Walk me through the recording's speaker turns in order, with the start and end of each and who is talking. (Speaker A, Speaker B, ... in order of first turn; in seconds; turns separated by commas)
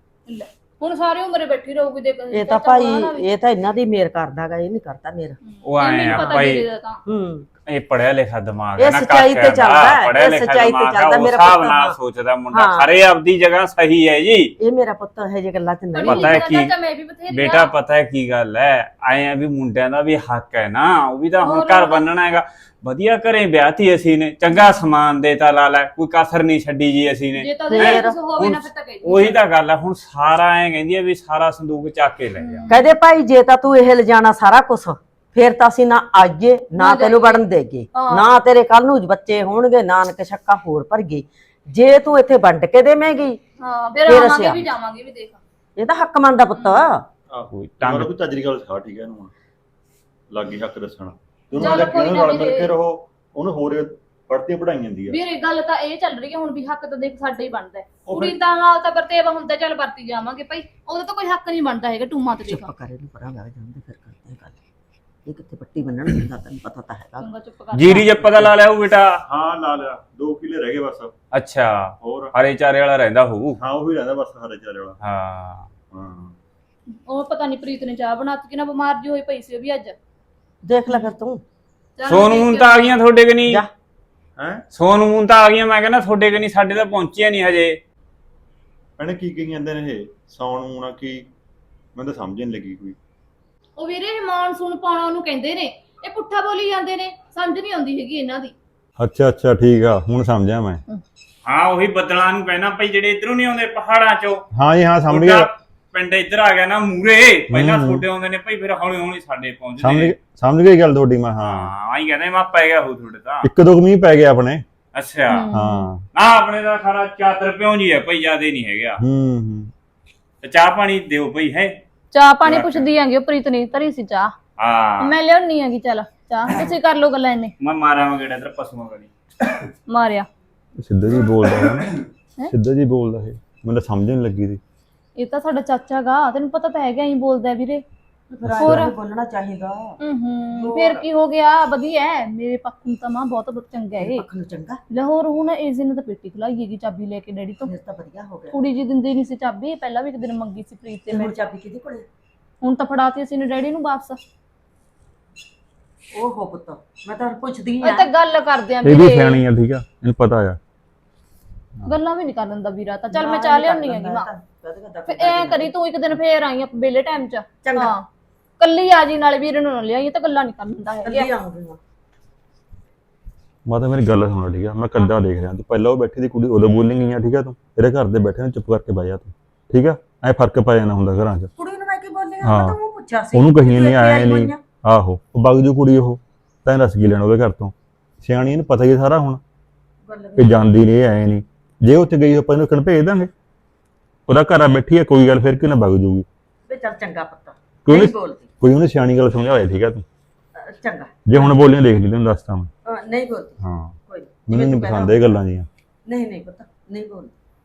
Speaker A: 0.3-3.2, Speaker B: 2.3-5.4, Speaker A: 5.4-7.0, Speaker C: 5.7-6.6, Speaker B: 6.1-6.4, Speaker B: 7.1-7.5, Speaker C: 7.7-14.5, Speaker B: 8.8-12.0, Speaker B: 12.5-12.9, Speaker B: 14.6-16.4, Speaker A: 15.9-17.7, Speaker C: 16.1-16.7, Speaker C: 17.3-32.7, Speaker A: 21.4-22.1, Speaker A: 27.4-29.4, Speaker B: 27.7-28.2, Speaker A: 32.4-32.9, Speaker B: 32.7-43.4, Speaker A: 36.8-37.4, Speaker A: 37.9-38.3, Speaker A: 43.6-45.4, Speaker B: 44.1-44.6, Speaker B: 45.8-47.0, Speaker A: 46.6-46.9, Speaker D: 47.3-49.3, Speaker C: 47.5-48.1, Speaker D: 50.3-55.2, Speaker A: 51.5-52.7, Speaker A: 55.1-62.7, Speaker D: 58.1-58.4, Speaker B: 62.5-64.6, Speaker B: 65.3-67.3, Speaker A: 67.2-68.5, Speaker C: 67.7-69.2, Speaker D: 69.3-71.1, Speaker C: 71.3-73.6, Speaker D: 72.0-72.3, Speaker D: 73.6-75.0, Speaker C: 75.0-75.7, Speaker D: 75.9-76.3, Speaker A: 77.1-80.0, Speaker B: 80.6-81.4, Speaker A: 82.0-83.0, Speaker C: 82.1-83.6, Speaker D: 84.4-84.6, Speaker C: 84.7-87.8, Speaker D: 89.0-91.3, Speaker D: 92.0-93.0, Speaker A: 93.8-98.5, Speaker E: 99.0-100.8, Speaker C: 101.5-104.5, Speaker E: 104.5-105.5, Speaker C: 105.1-110.2, Speaker E: 107.5-108.0, Speaker E: 109.8-111.7, Speaker C: 111.4-113.5, Speaker E: 113.4-114.6, Speaker C: 115.0-115.5, Speaker A: 115.3-115.9, Speaker E: 115.5-116.0, Speaker C: 116.1-119.0, Speaker E: 119.0-119.7, Speaker C: 120.4-121.8, Speaker A: 122.1-124.3, Speaker C: 122.5-122.8, Speaker C: 124.6-125.1, Speaker A: 125.0-127.5, Speaker C: 127.6-129.1, Speaker A: 129.9-130.3, Speaker E: 130.8-134.6, Speaker A: 135.2-137.8, Speaker B: 138.3-140.0, Speaker E: 138.5-138.8, Speaker A: 138.6-138.9, Speaker A: 140.0-144.2, Speaker B: 140.5-141.0, Speaker B: 144.0-144.8, Speaker A: 144.9-147.7, Speaker B: 147.7-148.5, Speaker A: 148.5-151.3, Speaker B: 151.1-152.1, Speaker A: 152.6-154.2, Speaker B: 156.1-158.1, Speaker A: 157.8-159.4, Speaker E: 158.8-160.6, Speaker A: 161.8-164.3, Speaker B: 163.1-165.7, Speaker A: 165.1-168.1, Speaker B: 167.6-167.9, Speaker A: 168.6-171.3, Speaker B: 171.1-171.8, Speaker E: 173.7-181.5, Speaker B: 181.6-184.6, Speaker E: 182.4-182.8, Speaker E: 183.3-189.4, Speaker B: 190.1-190.7, Speaker E: 190.4-193.3, Speaker E: 194.3-196.3, Speaker B: 196.7-198.5, Speaker E: 197.9-200.1, Speaker B: 200.6-201.5, Speaker E: 201.3-202.7, Speaker B: 202.8-205.3, Speaker E: 203.6-203.9, Speaker E: 204.5-205.7, Speaker B: 206.1-207.3